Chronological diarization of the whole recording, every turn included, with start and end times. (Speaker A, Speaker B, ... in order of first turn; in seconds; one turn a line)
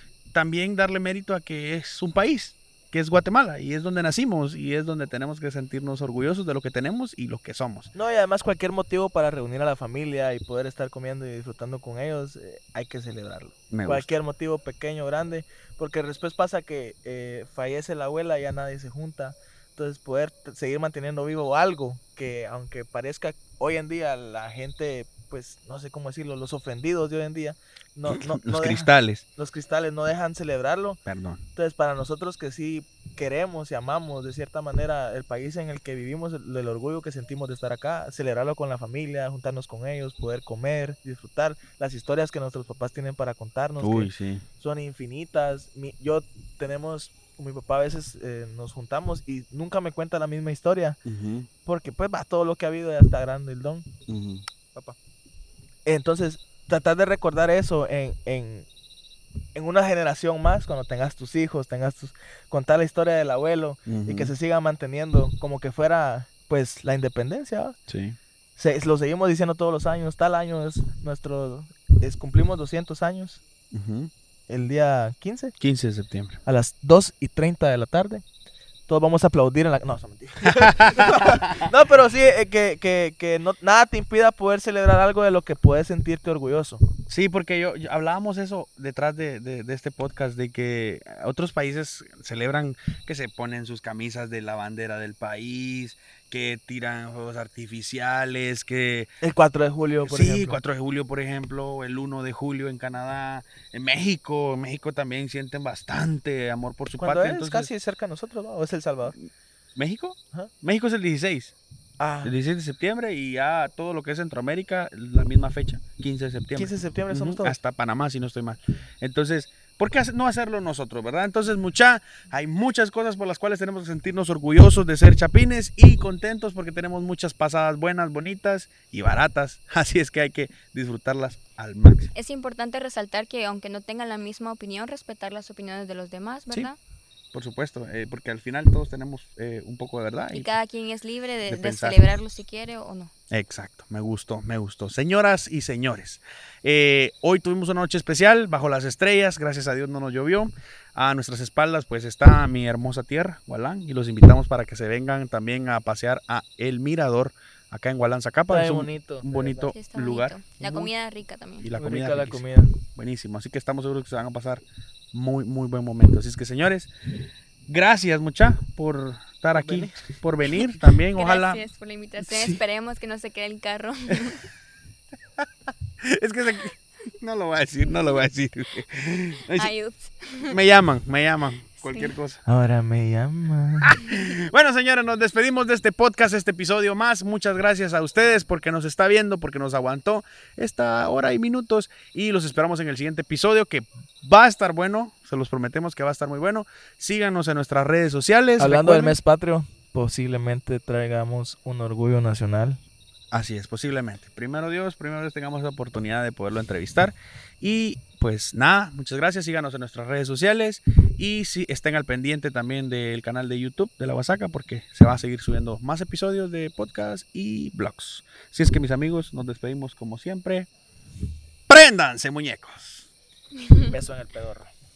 Speaker A: 0.3-7.9
Speaker B: 7.9-31.0
Speaker A: 13.7-14.1
Speaker A: 28.1-29.2
Speaker A: 31.1-31.4
Speaker B: 31.6-51.0
Speaker A: 43.8-44.4
Speaker A: 51.0-51.5
Speaker B: 51.6-53.9
Speaker A: 54.1-54.4
Speaker B: 55.9-58.7
Speaker B: 59.5-67.8
Speaker A: 63.9-64.3
Speaker A: 67.9-68.2
Speaker B: 68.6-73.4
Speaker A: 73.7-74.1
Speaker B: 74.5-75.5
Speaker A: 75.6-76.4
Speaker B: 76.5-78.2
Speaker B: 78.9-86.8
Speaker A: 80.5-81.7
Speaker A: 87.1-99.1
Speaker B: 99.2-100.6
Speaker A: 100.0-107.7
Speaker B: 107.0-109.1
Speaker A: 109.1-111.5
Speaker B: 112.0-112.3
Speaker A: 112.2-132.1
Speaker B: 116.5-117.6
Speaker C: 132.1-136.8
Speaker A: 137.3-140.5
Speaker C: 140.3-143.1
Speaker A: 141.5-142.0
Speaker A: 143.3-160.9
Speaker B: 158.5-159.7
Speaker C: 159.7-161.7
Speaker A: 161.6-164.6
Speaker B: 161.8-162.7
Speaker A: 165.1-166.9
Speaker A: 167.7-171.6
Speaker B: 169.5-169.9
Speaker C: 171.1-174.5
Speaker A: 172.2-172.6
Speaker A: 176.0-179.7
Speaker C: 179.5-180.6
Speaker A: 180.4-182.4
Speaker C: 181.8-182.1
Speaker B: 182.4-183.9
Speaker A: 183.8-199.2
Speaker B: 198.6-202.8
Speaker A: 203.3-220.7
Speaker A: 221.7-223.1
Speaker C: 223.6-223.9
Speaker B: 223.9-224.7